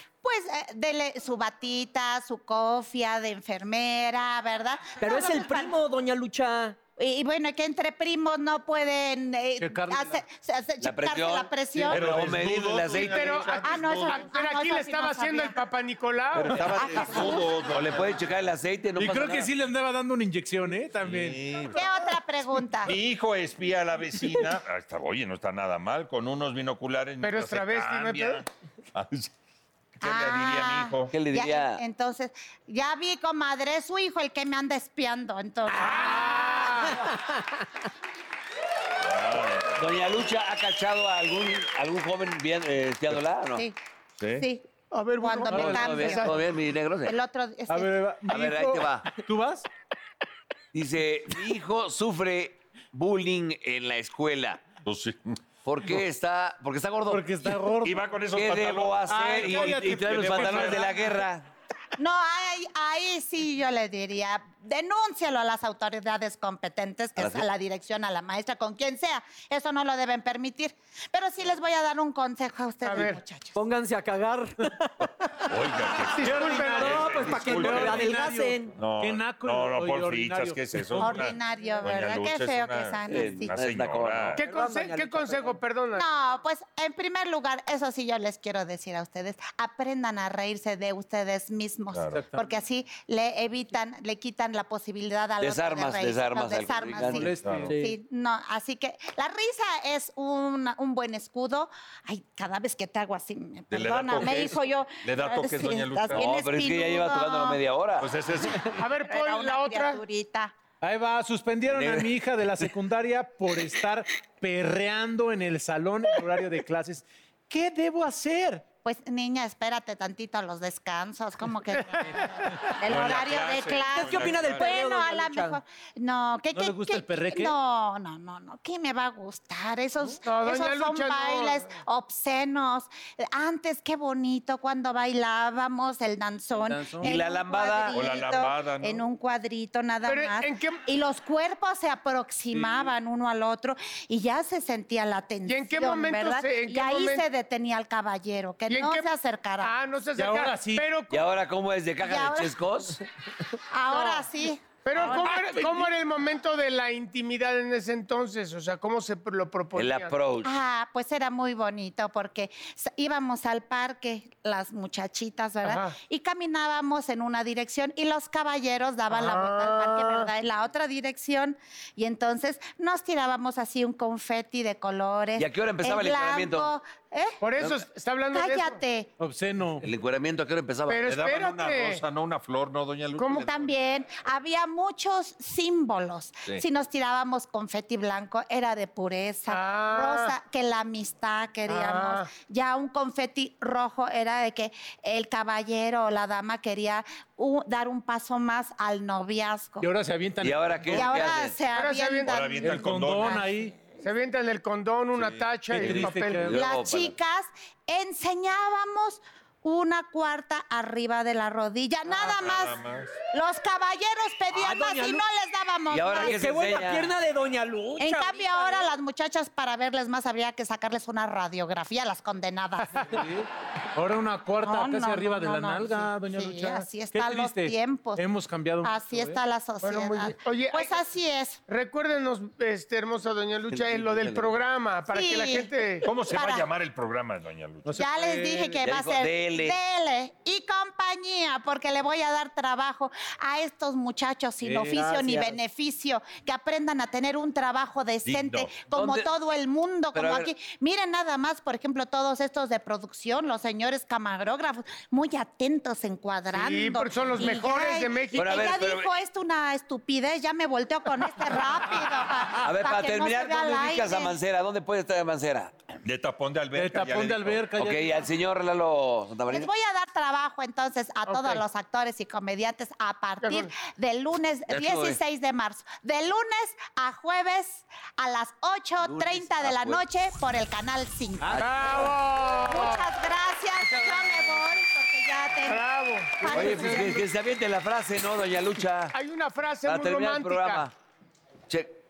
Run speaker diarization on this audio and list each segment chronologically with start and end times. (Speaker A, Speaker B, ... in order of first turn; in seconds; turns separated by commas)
Speaker A: 0.2-5.8, Speaker B: 5.0-6.8, Speaker A: 7.0-12.1, Speaker C: 9.6-10.2, Speaker D: 10.8-13.3, Speaker E: 11.9-14.2, Speaker C: 12.8-14.1, Speaker F: 12.9-16.6, Speaker A: 13.6-15.6, Speaker E: 16.4-18.2, Speaker A: 16.6-17.6, Speaker D: 17.6-19.5, Speaker C: 19.0-21.4, Speaker E: 21.0-21.9, Speaker A: 21.7-23.0, Speaker E: 22.8-29.3, Speaker F: 27.2-28.4, Speaker E: 30.0-31.1, Speaker A: 30.0-36.9, Speaker D: 31.1-31.8, Speaker F: 35.8-36.9, Speaker E: 39.0-40.0, Speaker D: 39.8-43.6, Speaker E: 44.2-44.5, Speaker A: 44.4-44.7, Speaker F: 44.9-46.3, Speaker A: 45.2-46.4, Speaker C: 45.5-46.0, Speaker D: 45.6-47.1, Speaker A: 47.0-48.0, Speaker C: 47.7-49.7, Speaker D: 48.3-49.2, Speaker D: 50.7-54.7, Speaker E: 54.9-55.4, Speaker D: 55.6-57.6, Speaker C: 57.1-58.0, Speaker E: 57.8-60.9, Speaker D: 58.3-61.5, Speaker C: 59.1-61.1, Speaker A: 62.0-73.6, Speaker D: 67.2-67.5, Speaker F: 72.8-73.2, Speaker B: 73.6-75.5, Speaker E: 75.5-78.1, Speaker C: 76.2-81.3, Speaker B: 76.2-78.8, Speaker F: 76.2-76.9, Speaker E: 78.8-84.4, Speaker A: 81.0-83.6, Speaker D: 83.1-84.4, Speaker B: 84.4-85.6, Speaker F: 84.4-86.1, Speaker A: 85.9-107.6, Speaker E: 91.9-92.3, Speaker C: 92.1-92.5, Speaker D: 95.4-97.2, Speaker C: 97.1-97.8, Speaker E: 97.2-97.8, Speaker B: 97.7-98.0, Speaker E: 103.7-106.2, Speaker D: 106.1-108.1, Speaker E: 108.0-108.8, Speaker F: 108.8-110.0, Speaker A: 108.9-110.5, Speaker C: 110.8-118.7, Speaker D: 111.7-112.7, Speaker A: 118.8-122.2, Speaker C: 122.0-122.6, Speaker A: 122.8-149.7, Speaker E: 122.8-124.7, Speaker B: 123.9-125.6, Speaker C: 126.5-127.5, Speaker F: 130.2-131.6, Speaker C: 136.6-137.1, Speaker D: 137.0-138.0, Speaker E: 137.9-139.0, Speaker F: 140.1-140.8, Speaker F: 145.5-147.2, Speaker F: 148.7-149.1, Speaker F: 149.6-151.3, Speaker C: 150.2-150.8, Speaker D: 151.1-153.0, Speaker A: 152.0-152.6, Speaker A: 153.7-155.9, Speaker F: 153.9-154.2, Speaker F: 154.8-160.1, Speaker D: 159.8-160.5, Speaker A: 160.4-177.4, Speaker F: 165.7-166.0, Speaker F: 169.2-170.3, Speaker D: 175.4-176.7, Speaker F: 177.4-178.8, Speaker A: 178.3-179.1, Speaker C: 179.2-179.8, Speaker D: 179.8-181.0, Speaker F: 180.9-182.0, Speaker E: 181.1-183.7, Speaker A: 183.3-199.9, Speaker F: 189.5-190.3, Speaker F: 191.7-192.3, Speaker C: 199.8-201.2, Speaker D: 200.4-201.6, Speaker A: 200.9-203.9, Speaker F: 201.7-202.5, Speaker E: 202.3-203.4, Speaker C: 202.6-203.7, Speaker F: 204.0-206.5, Speaker E: 205.2-206.0, Speaker C: 205.7-206.6, Speaker D: 205.8-207.2, Speaker A: 206.5-212.8, Speaker E: 212.1-213.1, Speaker A: 213.3-216.4, Speaker C: 214.5-215.2, Speaker D: 215.9-217.1, Speaker B: 216.2-218.9, Speaker A: 218.0-223.2, Speaker C: 223.0-229.4, Speaker A: 224.6-228.2, Speaker A: 228.8-231.6, Speaker F: 229.8-230.9, Speaker F: 231.7-236.1, Speaker D: 233.7-234.6, Speaker A: 235.1-236.7, Speaker E: 236.1-238.0, Speaker C: 237.8-238.8, Speaker A: 237.9-264.4, Speaker D: 238.8-239.8, Speaker C: 244.6-245.5, Speaker E: 248.2-248.8, Speaker D: 248.9-249.3, Speaker D: 250.1-250.5, Speaker F: 256.5-258.6, Speaker D: 258.4-259.1, Speaker D: 262.6-266.0, Speaker E: 266.1-267.7, Speaker C: 266.7-268.3, Speaker D: 267.8-269.7, Speaker A: 269.5-285.9, Speaker F: 271.3-271.6, Speaker F: 273.4-273.7, Speaker D: 274.7-275.2, Speaker D: 279.0-280.0, Speaker D: 281.4-282.1, Speaker F: 281.6-283.1, Speaker D: 283.9-284.4, Speaker F: 285.6-287.1, Speaker A: 286.4-287.2, Speaker D: 286.4-289.1, Speaker F: 289.1-290.8, Speaker D: 289.9-290.9, Speaker D: 291.7-292.0